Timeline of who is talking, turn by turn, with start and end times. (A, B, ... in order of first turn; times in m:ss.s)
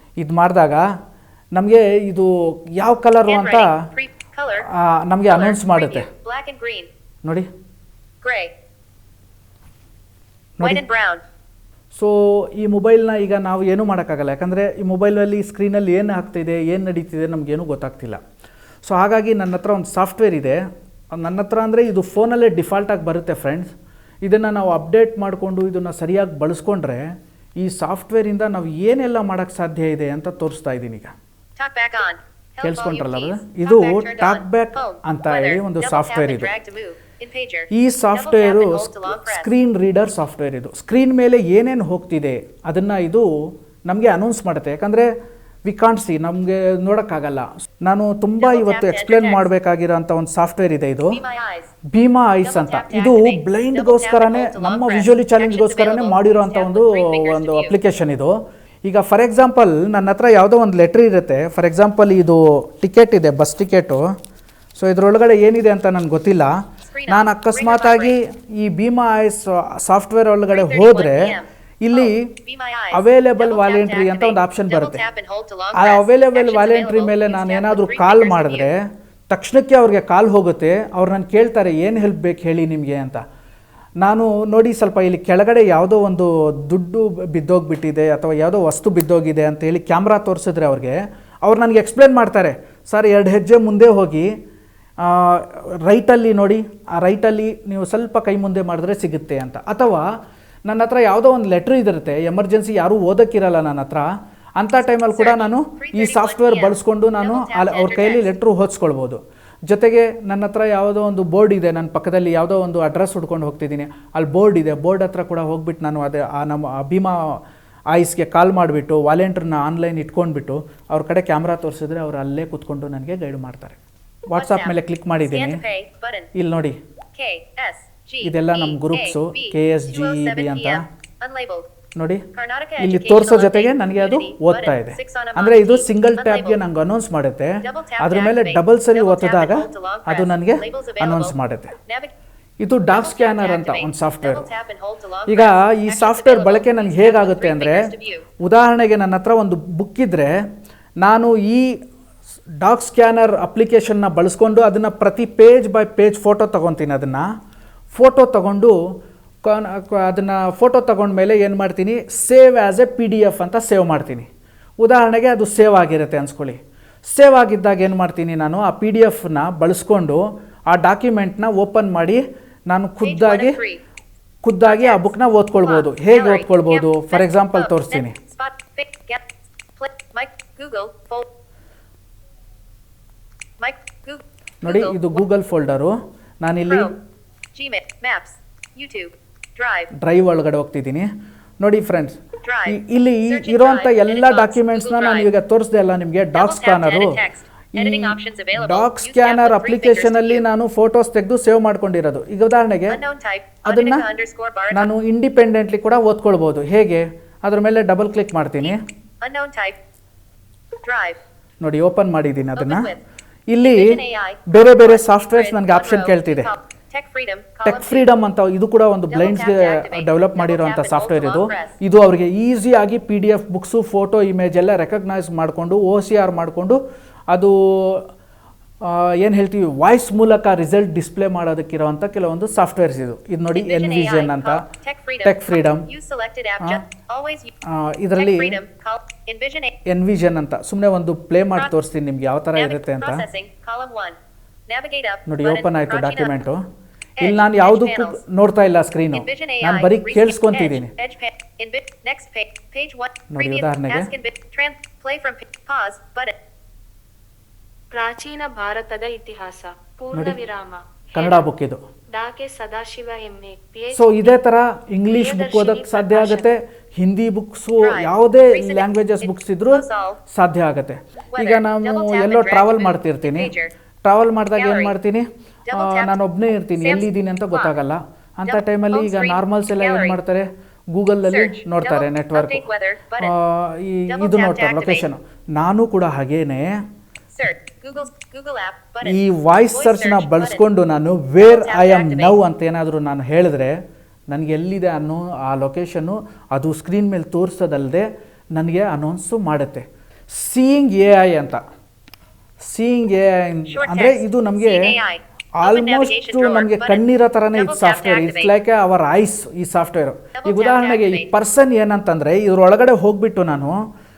0:00.2-0:00.9 A
0:01.5-0:03.7 A
0:03.2-0:04.7 B
0:04.6-0:06.1 A
0:05.3-0:06.9 B
0:08.2-0:08.5 B
0:10.6-0:10.8 A
0:10.6-0:11.2 B
0:11.9-0:18.2 A
0:18.8-0:20.6 A
0:21.1-0:23.7 A
0:24.2-0:27.0 A
0:27.6-0:31.1 A
0:31.6-0:39.5 B
0:32.6-0:36.5 A
0:37.7-0:43.3 A
0:43.9-0:45.1 A
0:45.6-0:51.2 A
0:48.4-0:49.4 B
0:51.1-0:51.7 B
0:51.9-1:04.0 A
0:52.4-0:57.8 B
1:04.8-1:12.3 A
1:06.9-1:08.2 B
1:10.5-1:18.7 B
1:12.9-1:15.0 A
1:15.7-1:23.2 A
1:24.0-1:34.3 A
1:35.0-1:40.1 A
1:40.7-1:57.4 A
1:44.9-1:48.3 B
1:57.9-2:05.6 A
2:04.3-2:06.3 B
2:06.4-2:06.8 A
2:07.1-2:11.7 B
2:08.2-2:10.8 A
2:12.0-2:12.2 A
2:12.3-2:16.6 B
2:12.8-2:21.7 A
2:17.6-2:22.1 B
2:22.6-2:24.5 A
2:22.9-2:28.3 B
2:25.3-2:30.3 A
2:31.0-2:31.7 A
2:32.6-2:37.2 A
2:37.9-2:38.7 A
2:39.4-2:44.3 A
2:44.8-2:53.6 A
2:53.0-2:53.8 B
2:54.4-2:58.1 A
2:54.6-2:59.2 B
2:59.8-3:01.2 B
3:03.6-3:05.2 B
3:04.6-3:06.9 A
3:06.7-3:06.9 B
3:07.5-3:09.9 B
3:10.0-3:11.1 A
3:11.6-3:17.2 A
3:12.4-3:15.3 B
3:16.3-3:20.4 B
3:17.7-3:23.0 A
3:22.9-3:24.9 B
3:23.6-3:24.1 A
3:24.7-3:28.8 A
3:28.6-3:29.8 B
3:30.8-3:31.2 B
3:31.6-3:32.9 A
3:32.5-3:33.0 B
3:33.5-3:36.5 A
3:33.6-3:38.1 B
3:37.6-3:46.8 A
3:39.1-3:41.8 B
3:47.3-3:48.1 A
3:48.8-3:54.6 A
3:53.5-3:57.5 B
3:55.2-3:55.9 A
3:57.7-3:58.6 A
3:58.1-3:59.8 B
3:59.8-4:03.2 A
4:02.5-4:04.2 B
4:04.7-4:06.3 B
4:05.3-4:06.6 A
4:07.2-4:08.2 B
4:07.2-4:10.9 A
4:09.1-4:16.3 B
4:13.3-4:14.1 A
4:17.9-4:21.3 C
4:21.1-4:21.8 A
4:22.1-4:24.3 C
4:23.9-4:33.5 A
4:25.1-4:26.4 C
4:27.8-4:30.2 B
4:31.3-4:33.7 B
4:34.0-4:42.7 A
4:34.5-4:34.9 B
4:35.7-4:36.2 B
4:36.8-4:37.8 B
4:38.4-4:40.2 B
4:41.2-4:43.3 B
4:43.2-4:46.8 A
4:44.1-4:45.1 B
4:47.3-4:50.6 B
4:49.0-4:53.8 A
4:51.4-4:52.4 B
4:54.3-5:01.6 A
5:02.6-5:04.9 A
5:03.7-5:08.6 B
5:05.6-5:13.8 A
5:10.4-5:11.3 B